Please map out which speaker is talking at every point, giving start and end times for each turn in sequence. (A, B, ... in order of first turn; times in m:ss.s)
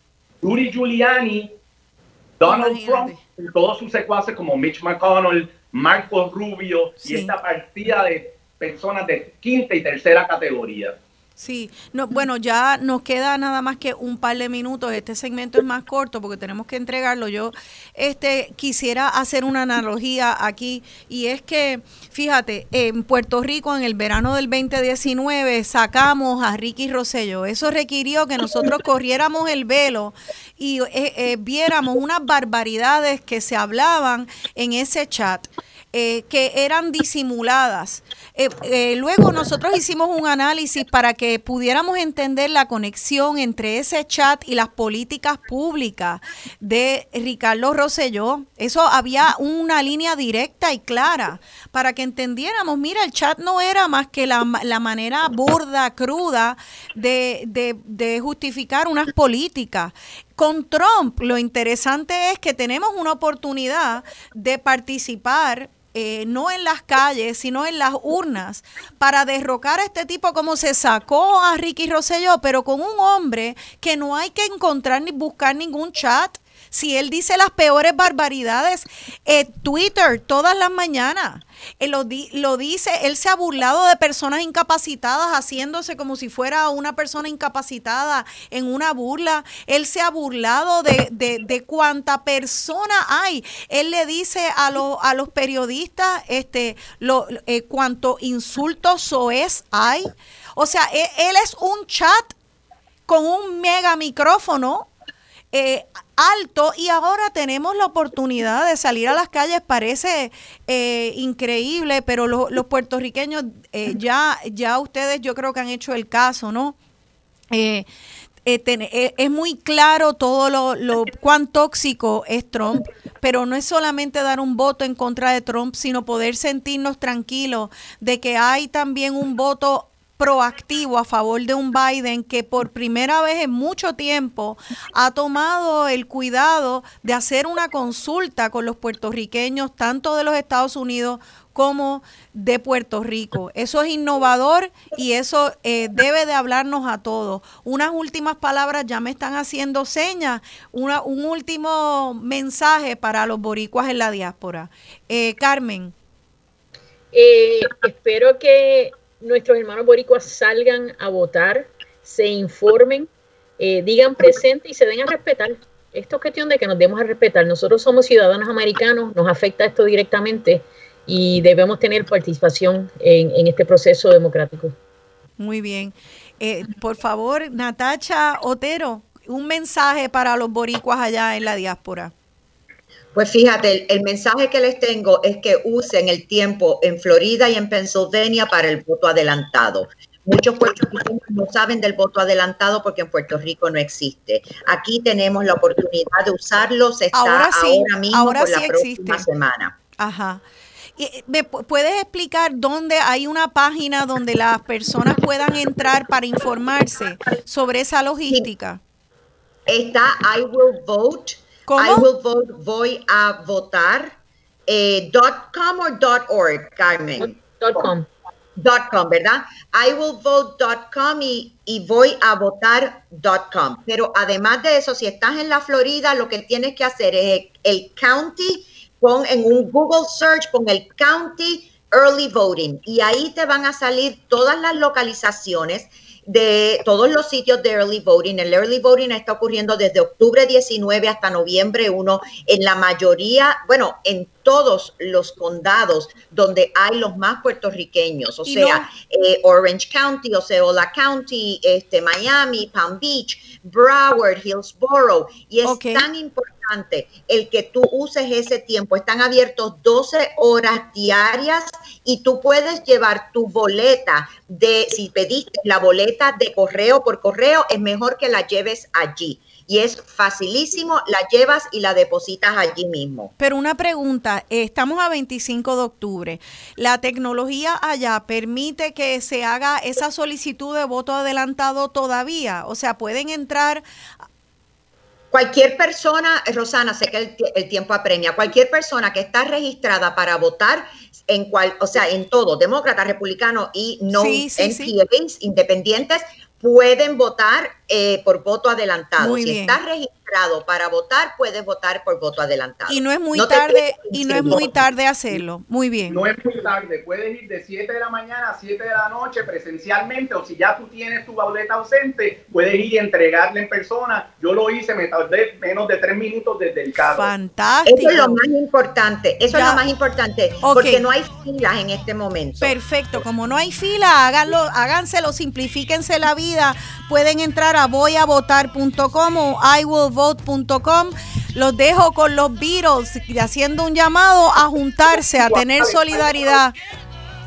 0:00.4-0:01.5 A
0:02.4-0:11.0 A
0:02.4-0:03.2 B
0:07.0-0:07.3 B
0:11.4-1:42.4 B
1:43.1-1:44.9 B
1:45.5-1:56.8 B
1:57.5-1:57.9 B
1:58.4-2:35.9 B
2:37.1-2:43.1 C
2:43.6-2:54.7 C
2:55.4-3:02.1 B
3:03.1-3:19.8 D
3:17.1-3:19.2 B
3:20.0-3:20.4 B
3:21.0-3:28.8 B
3:29.7-3:34.1 D
3:31.7-3:32.0 B
3:34.7-3:37.4 D
3:37.2-3:38.1 C
3:38.6-4:33.3 D
4:08.4-4:08.9 B
4:15.6-4:16.0 B
4:33.4-4:43.8 B
4:45.3-5:04.7 D
4:54.1-4:54.9 B
4:59.2-4:59.8 B
5:02.9-5:06.2 B
5:06.1-5:17.3 A
5:17.0-5:18.4 B
5:17.8-5:22.8 D
5:19.5-5:19.8 B
5:20.6-5:21.0 B
5:22.6-5:36.7 B
5:35.3-5:36.6 A